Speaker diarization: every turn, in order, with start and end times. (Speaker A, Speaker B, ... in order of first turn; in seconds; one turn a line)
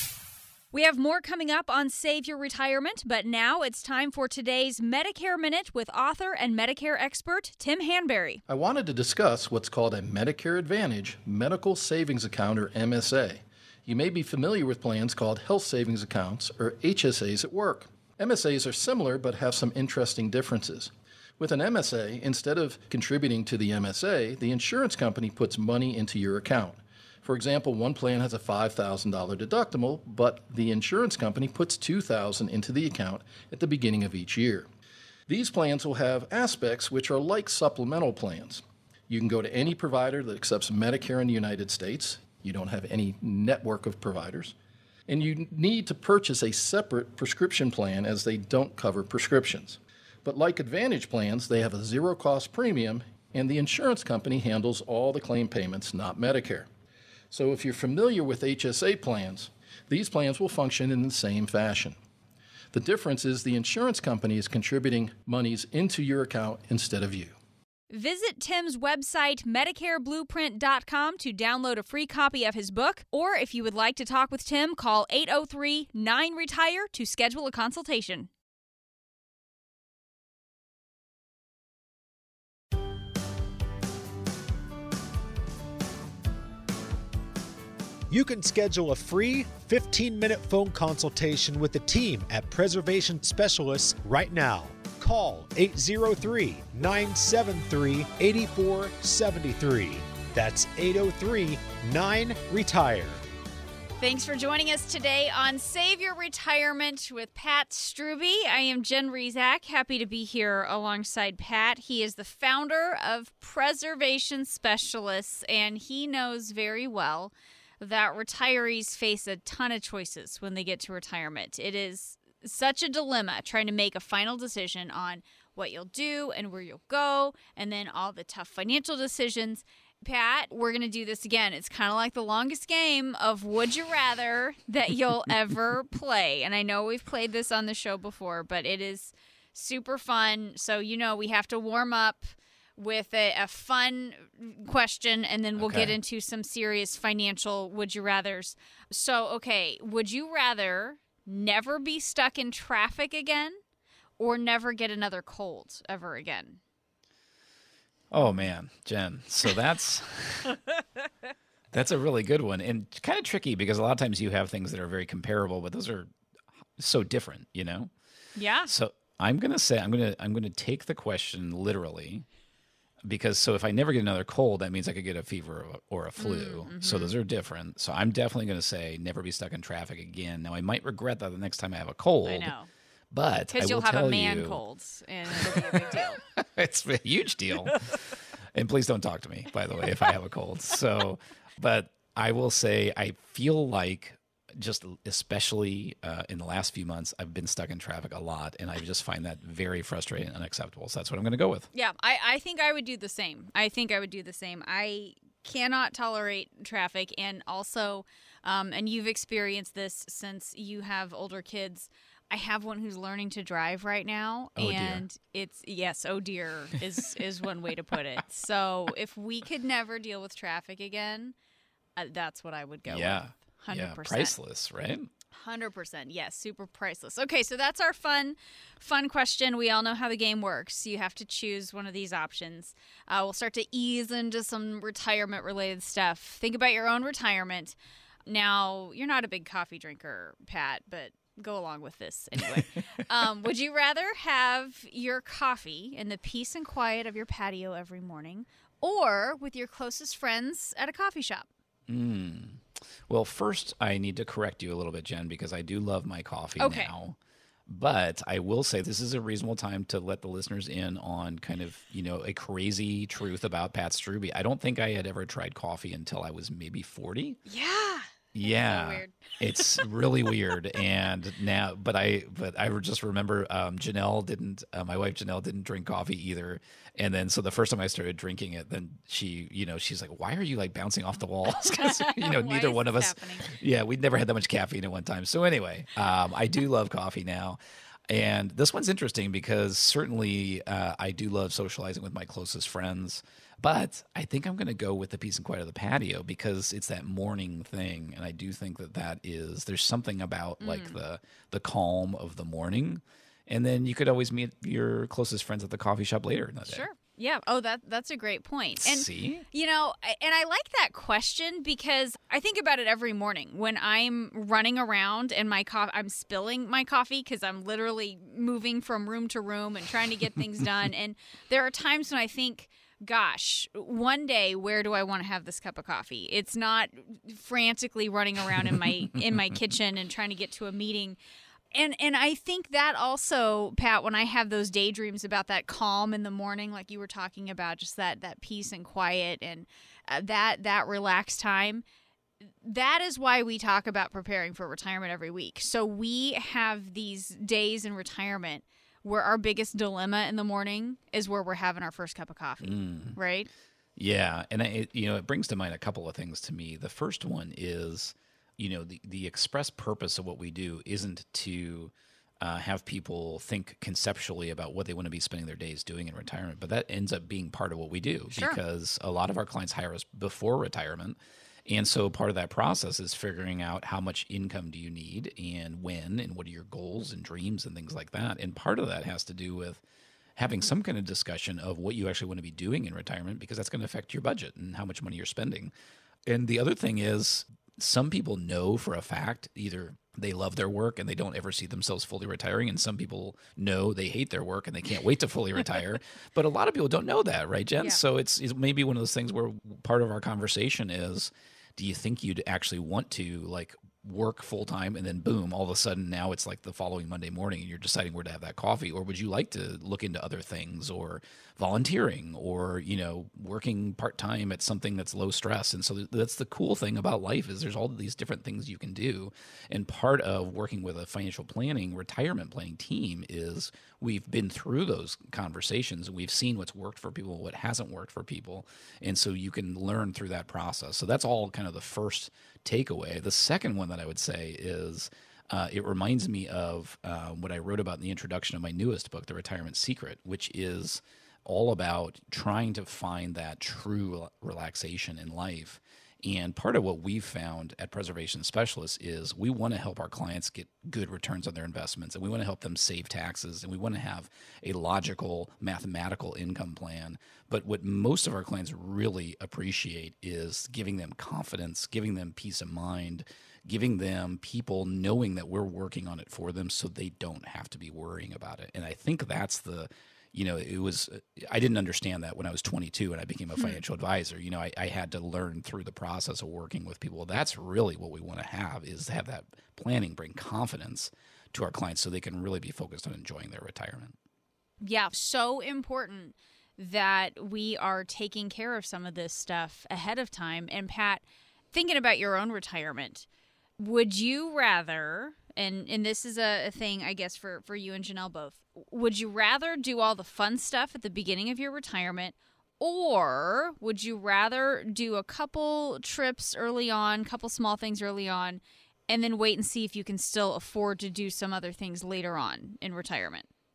Speaker A: 0.7-8.4
Speaker B: 8.5-34.7
Speaker B: 35.3-44.5
Speaker B: 45.1-56.7
Speaker B: 57.3-62.0
Speaker B: 62.7-67.4
Speaker A: 67.9-78.3
Speaker C: 88.1-103.2
Speaker A: 104.0-153.6
Speaker D: 145.6-145.9
Speaker A: 154.2-156.6
Speaker D: 158.1-160.6
Speaker A: 158.2-158.5
Speaker D: 161.7-166.1
Speaker D: 166.8-167.9
Speaker A: 168.4-168.7
Speaker D: 168.7-172.3
Speaker D: 173.1-182.5
Speaker A: 176.2-177.1
Speaker A: 182.2-182.7
Speaker D: 183.1-184.6
Speaker A: 183.5-186.2
Speaker D: 185.4-187.9
Speaker D: 188.6-201.7
Speaker A: 201.7-221.3
Speaker D: 214.6-215.0
Speaker A: 222.0-224.3
Speaker D: 222.9-225.1
Speaker A: 225.3-237.8
Speaker A: 238.3-251.5
Speaker D: 251.9-267.4
Speaker A: 256.6-256.9
Speaker A: 267.5-269.9
Speaker D: 268.4-306.9
Speaker A: 281.6-283.5
Speaker A: 300.6-301.0
Speaker A: 306.7-331.2
Speaker D: 308.8-309.4
Speaker A: 331.7-341.8
Speaker A: 342.6-353.5
Speaker D: 352.6-353.2
Speaker D: 354.0-379.8
Speaker A: 368.3-368.6
Speaker D: 380.4-385.7
Speaker D: 386.3-484.2
Speaker A: 484.8-493.3
Speaker A: 493.8-513.5